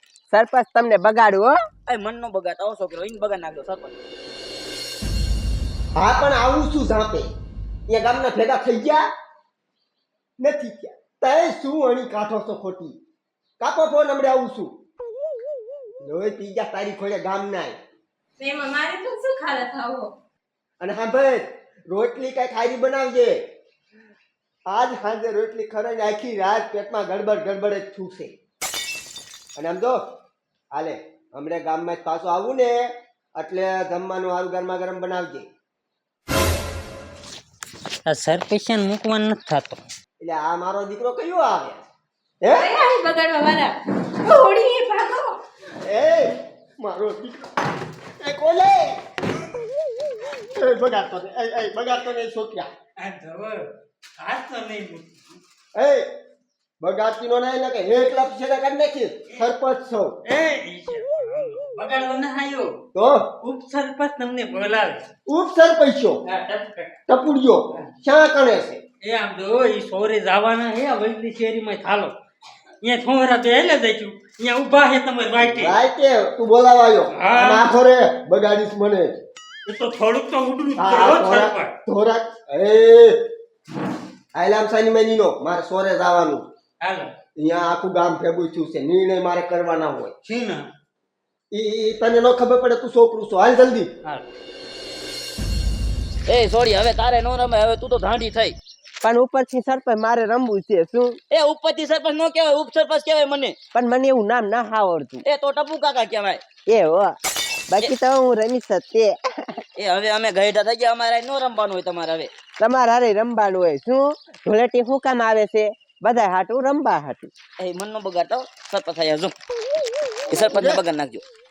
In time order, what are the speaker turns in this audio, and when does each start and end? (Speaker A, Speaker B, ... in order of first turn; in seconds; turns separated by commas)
Speaker A: 0.3-1.6, Speaker B: 1.9-3.9, Speaker C: 6.0-7.3, Speaker C: 7.9-9.0, Speaker C: 10.4-13.0, Speaker C: 13.6-14.7, Speaker C: 16.0-17.7, Speaker D: 18.4-20.1, Speaker C: 20.8-23.4, Speaker C: 24.7-28.3, Speaker C: 29.6-30.0, Speaker C: 30.7-32.8, Speaker C: 33.3-35.5, Speaker E: 38.0-39.8, Speaker C: 40.2-41.8, Speaker C: 42.4-42.7, Speaker D: 42.5-45.4, Speaker C: 45.8-47.5, Speaker C: 48.2-49.0, Speaker C: 50.5-52.7, Speaker E: 53.0-55.4, Speaker C: 55.7-56.0, Speaker C: 56.8-60.1, Speaker E: 60.2-62.8, Speaker C: 62.9-63.3, Speaker E: 63.4-65.0, Speaker C: 65.3-66.2, Speaker E: 66.2-67.0, Speaker C: 67.1-68.8, Speaker E: 69.0-72.2, Speaker E: 72.8-75.8, Speaker C: 75.4-79.1, Speaker E: 77.1-77.7, Speaker E: 79.7-81.7, Speaker C: 80.8-83.2, Speaker C: 84.3-86.5, Speaker E: 86.8-87.1, Speaker C: 87.3-90.1, Speaker E: 90.2-90.7, Speaker C: 91.5-93.9, Speaker B: 96.3-98.5, Speaker A: 99.0-101.2, Speaker B: 101.3-103.5, Speaker A: 103.7-105.2, Speaker B: 105.2-106.4, Speaker A: 106.7-107.2, Speaker A: 107.7-109.6, Speaker B: 109.8-112.3, Speaker A: 112.6-117.3, Speaker B: 117.6-119.3, Speaker C: 120.3-120.8, Speaker B: 120.3-121.2